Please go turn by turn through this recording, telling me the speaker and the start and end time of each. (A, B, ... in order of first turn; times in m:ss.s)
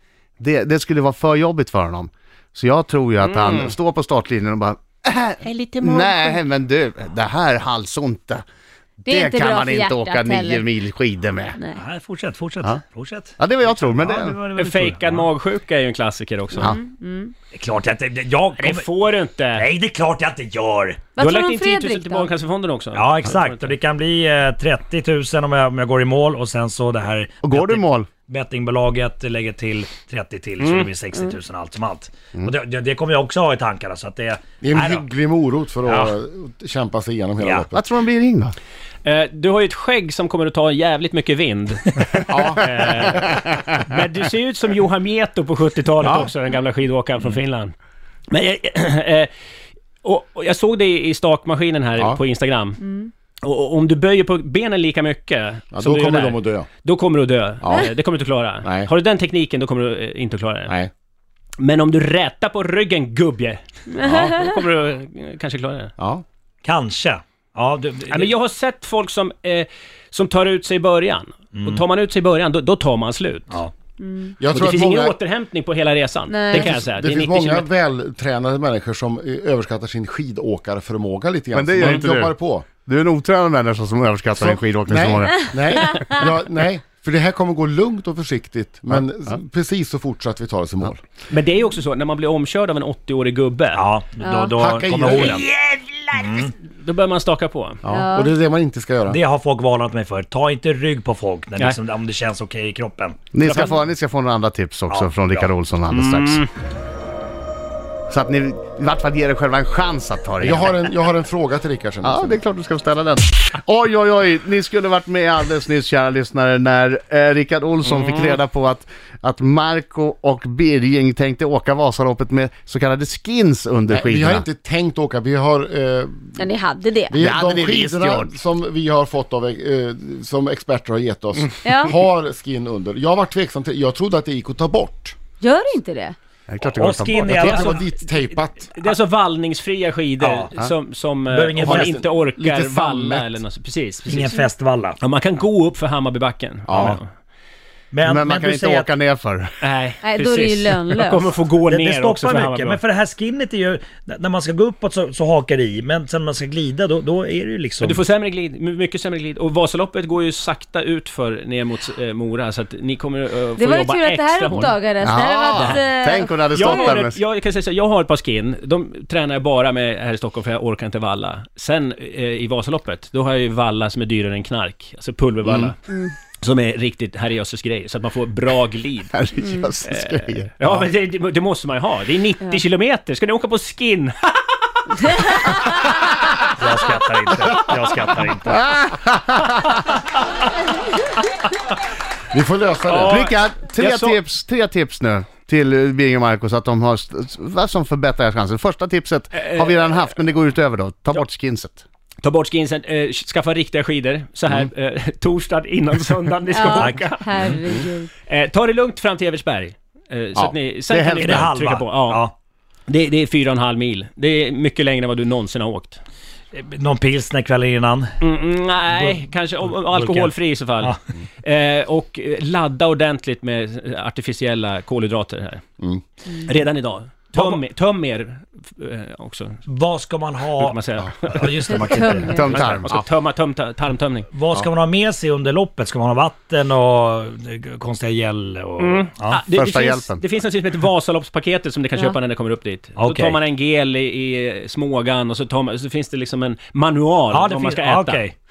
0:00.4-0:08.4 A
0:03.2-0:03.7 B
0:05.4-0:06.4 B
0:09.0-0:10.6 C
0:09.1-0:11.6 A
0:11.8-0:15.3 D
0:13.4-0:14.4 A
0:14.5-0:16.7 B
0:16.6-0:17.3 C
0:17.5-0:18.8 D
0:18.6-0:19.6 B
0:19.5-0:21.0 D
0:21.2-0:22.3 C
0:21.2-0:23.7 B
0:22.9-0:35.1 D
0:27.4-0:28.1 A
0:30.6-0:30.9 B
0:34.6-0:37.8 E
0:35.8-0:36.1 D
0:37.4-0:37.6 D
0:37.7-0:38.5 A
0:39.0-0:47.7 B
0:42.3-0:42.7 E
0:46.0-0:46.3 E
0:48.3-0:49.3 B
0:50.0-0:52.8 B
0:52.8-0:53.1 C
0:53.4-1:00.7 B
0:55.7-0:56.7 E
0:58.6-0:58.9 E
1:01.6-1:05.9 B
1:04.0-1:04.6 C
1:04.0-1:04.3 E
1:06.0-1:06.2 E
1:06.6-1:08.3 D
1:08.1-1:13.6 B
1:11.5-1:11.8 D
1:14.0-1:14.4 C
1:14.4-1:15.2 E
1:14.5-1:17.7 B
1:16.3-1:16.7 C
1:16.5-1:22.6 E
1:21.5-1:25.6 A
1:21.8-1:22.0 B
1:24.4-1:31.0 E
1:25.8-1:26.2 C
1:31.3-1:33.9 B
1:33.7-1:36.5 D
1:34.2-1:34.6 C
1:34.5-1:35.4 E
1:36.8-1:37.8 B
1:37.8-1:39.2 E
1:37.9-1:38.3 C
1:39.1-1:43.3 D
1:43.3-1:46.4 A
1:44.9-1:45.5 D
1:45.9-1:46.5 B
1:48.1-1:50.8 A
1:50.4-1:52.4 E
1:52.0-2:04.4 A
1:57.8-1:58.4 B
2:03.9-2:06.5 E
2:06.4-2:07.2 C
2:07.1-2:15.2 E
2:07.2-2:08.3 A
2:11.6-2:12.0 C
2:15.4-2:16.1 C
2:16.5-2:17.7 A
2:16.6-2:18.0 D
2:17.2-2:18.7 E
2:18.8-2:24.3 B
2:20.2-2:20.5 D
2:21.3-2:22.0 D
2:21.6-2:23.4 E
2:24.0-2:25.0 D
2:25.0-2:27.1 B
2:26.7-2:27.0 E
2:26.7-2:27.0 D
2:27.9-2:28.9 D
2:28.0-2:29.5 A
2:29.6-2:32.8 B
2:30.0-2:31.3 C
2:31.6-2:38.0 D
2:37.8-2:44.8 B
2:43.6-2:46.9 C
2:45.0-2:47.2 A
2:45.5-2:45.8 B
2:46.5-2:55.8 B
2:56.4-2:59.2 B
2:59.1-3:00.9 A
2:59.4-2:59.7 C
2:59.8-3:04.3 B
3:05.0-3:05.6 B
3:05.1-3:05.9 C
3:06.6-3:08.6 D
3:08.5-3:09.8 A
3:12.3-3:13.2 E
3:12.8-3:14.2 B
3:13.0-3:21.8 A
3:19.3-3:20.1 B
3:22.2-3:27.6 B
3:26.5-3:28.1 C
3:26.7-3:27.0 D
3:28.2-3:32.2 B
3:30.9-3:31.5 A
3:31.2-3:32.3 D
3:32.9-3:36.0 B
3:36.5-3:38.2 D
3:38.2-3:45.6 B
3:38.9-3:41.0 D
3:46.3-3:49.6 B
3:47.3-3:47.6 D
3:49.6-3:52.8 D
3:50.6-3:54.3 B
3:51.8-3:52.5 C
3:52.3-3:52.9 A
3:54.3-3:59.4 D
3:58.8-4:08.2 B
3:59.5-4:00.2 A
4:03.0-4:03.4 D
4:07.3-4:08.4 D